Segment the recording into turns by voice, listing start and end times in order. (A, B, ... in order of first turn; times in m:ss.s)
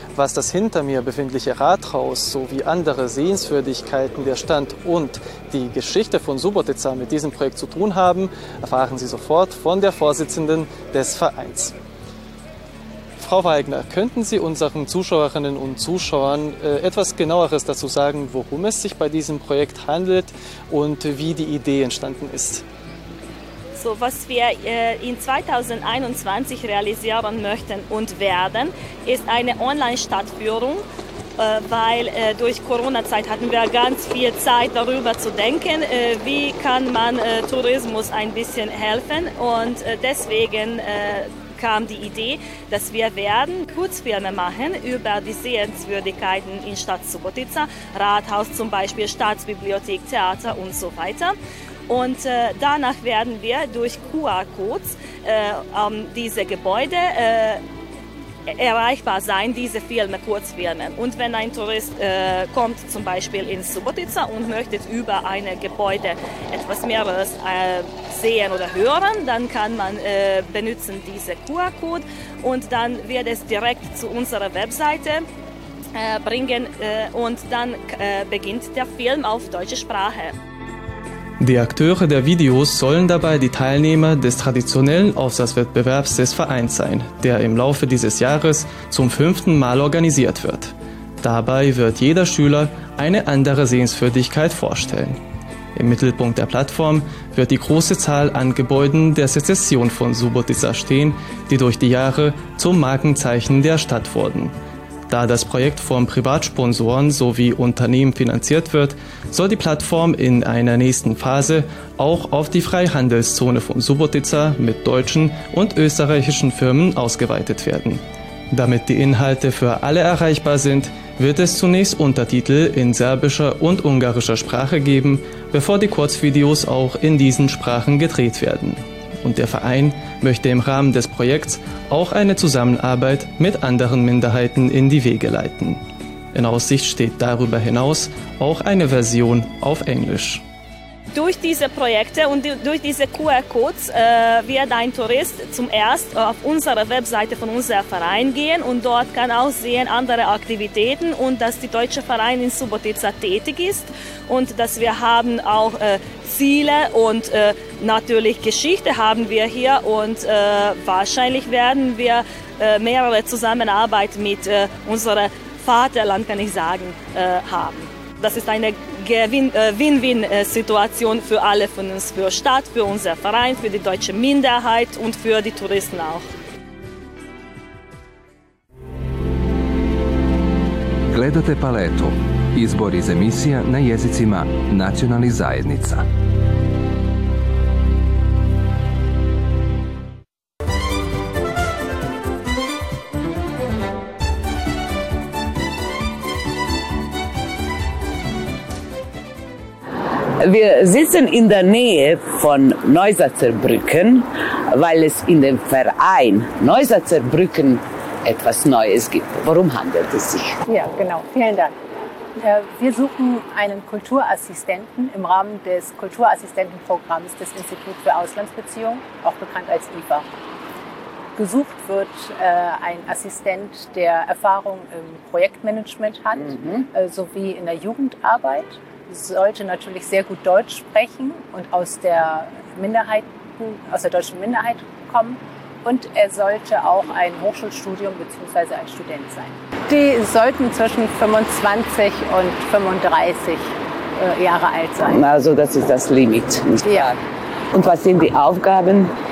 0:00.2-0:11.8 A
0:13.2-0:22.6 A
0:23.8-0:30.8 B
0:31.4-0:51.4 B
0:51.9-0:57.6 B
0:58.5-1:15.3 B
1:16.0-1:20.4 B
1:21.4-1:35.2 A
1:35.8-1:44.6 A
1:45.1-2:15.8 A
2:16.3-2:20.4 A
2:21.1-2:56.3 B
3:01.1-3:06.0 C
3:20.4-3:30.6 D
3:30.7-3:31.7 E
3:32.4-3:40.2 E
3:41.4-4:05.2 E
4:05.0-4:07.2 D
4:06.8-4:07.1 E
4:07.7-4:09.1 D